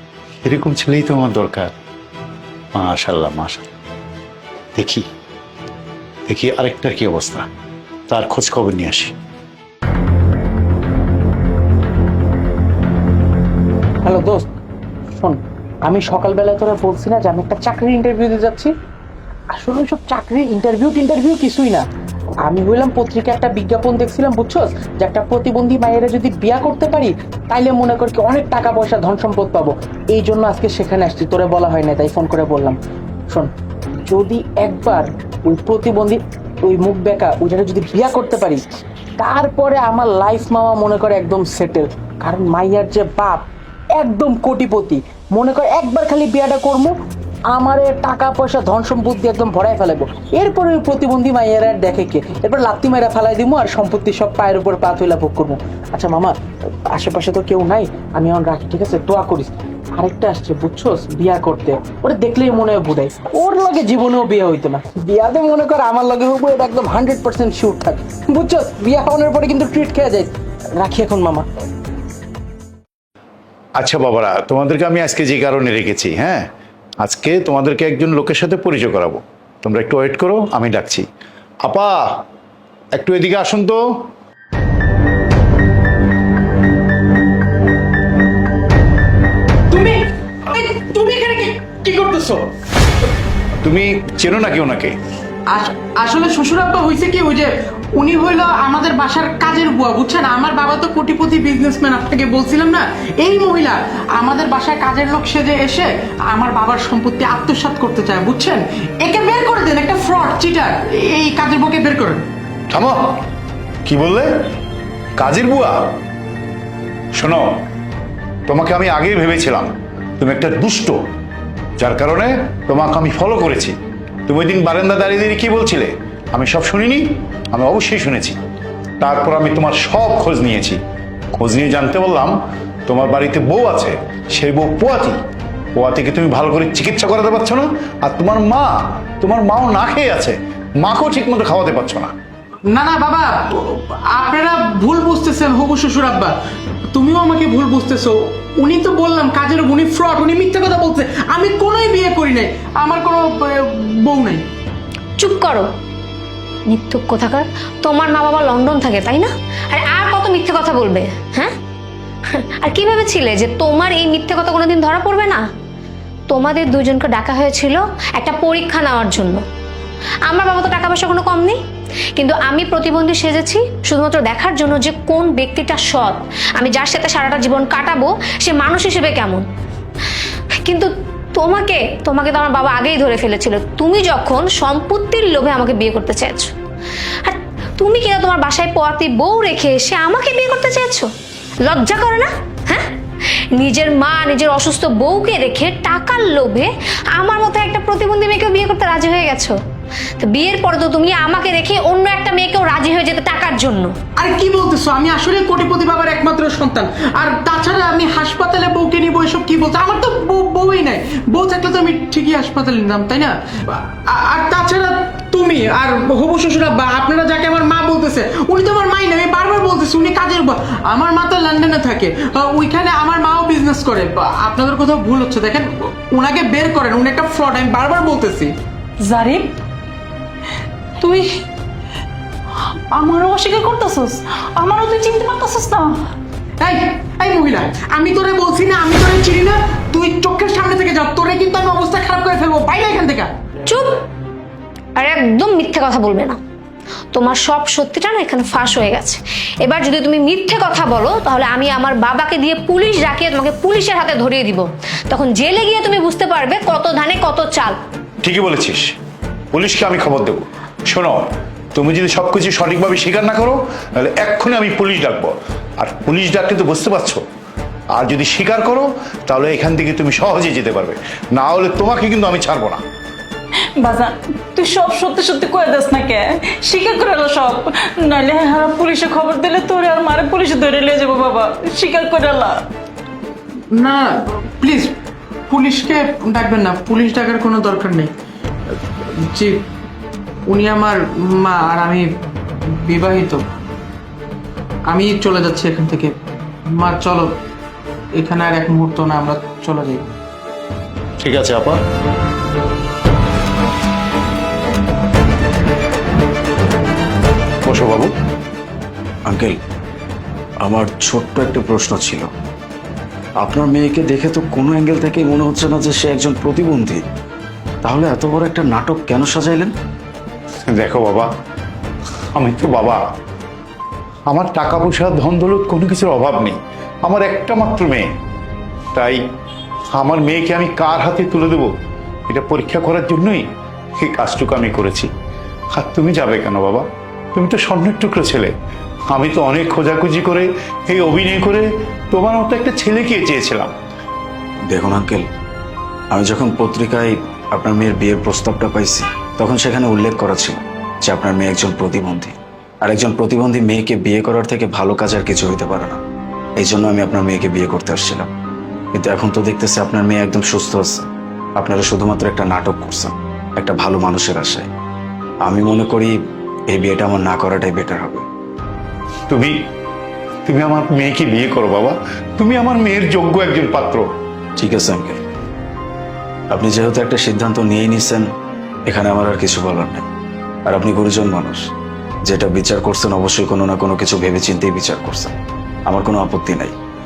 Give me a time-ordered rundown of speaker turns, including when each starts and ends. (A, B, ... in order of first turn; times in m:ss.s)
0:00.4-0:01.7 A
0:02.8-0:03.7 A
0:04.8-0:05.1 A
0:06.3-0:07.5 A
0:08.1-0:09.1 A
0:14.0-0:14.5 B
0:15.2-0:18.7 B
0:19.5-0:21.9 B
0:22.4-0:32.8 B
0:34.0-0:38.6 B
0:39.2-0:47.0 B
0:47.5-1:11.5 B
1:13.8-1:16.5 A
1:17.0-1:21.1 A
1:21.6-1:22.2 A
1:23.0-1:24.1 A
1:29.7-1:32.5 B
1:33.6-1:35.0 A
1:35.5-1:52.2 B
1:52.7-1:53.2 A
1:53.9-1:54.3 A
1:55.2-1:55.9 A
1:57.2-1:57.5 A
1:58.5-2:01.0 A
2:01.8-2:03.8 A
2:04.3-2:08.4 A
2:09.0-2:10.8 A
2:11.4-2:15.2 A
2:15.8-2:22.1 A
2:22.7-2:26.3 B
2:26.9-2:34.5 B
2:35.2-2:35.7 C
2:36.7-2:41.5 C
2:42.3-2:45.4 C
2:46.3-2:49.4 C
2:50.3-2:51.6 C
2:52.2-2:59.4 C
3:00.6-3:06.5 C
3:07.2-3:11.1 C
3:11.7-3:12.9 C
3:13.6-3:19.6 C
3:20.2-3:23.9 C
3:24.2-3:48.5 B
3:49.0-3:49.6 D
3:51.0-3:51.4 D
3:52.9-3:56.1 D
3:56.6-4:03.3 B
4:03.7-4:04.0 C
4:05.0-4:06.4 C
4:07.1-4:17.8 C
4:18.2-4:18.9 A
4:19.5-4:27.2 A
4:27.9-4:32.8 A
4:33.8-4:42.7 D
4:43.7-4:45.0 B
4:45.5-4:48.1 B
4:48.7-4:49.6 B
4:50.5-4:52.1 B
4:52.6-4:53.4 B
4:54.9-4:56.2 B
4:56.7-4:57.4 B
4:58.2-5:00.1 B
5:01.2-5:01.8 A
5:07.6-5:08.1 A
5:09.2-5:09.6 E
5:10.6-5:12.3 E
5:13.4-5:17.0 E
5:17.8-5:19.8 E
5:20.7-5:21.3 A
5:22.4-5:23.0 A
5:24.3-5:28.1 A
5:28.9-5:29.2 A
5:29.9-5:31.7 A
5:32.3-5:33.5 A
5:34.0-5:35.1 A
5:35.8-5:38.5 A
5:39.1-5:43.7 A
5:44.7-5:45.3 E
5:46.1-5:56.0 E
5:56.6-5:58.3 E
5:58.9-6:04.7 E
6:05.4-6:06.2 E
6:06.7-6:08.2 E
6:09.3-6:09.6 A
6:10.5-6:14.1 A
6:14.6-6:15.2 E
6:16.5-6:18.3 E
6:18.9-6:20.1 E
6:20.7-6:21.7 E
6:22.3-6:25.3 E
6:25.9-6:26.8 E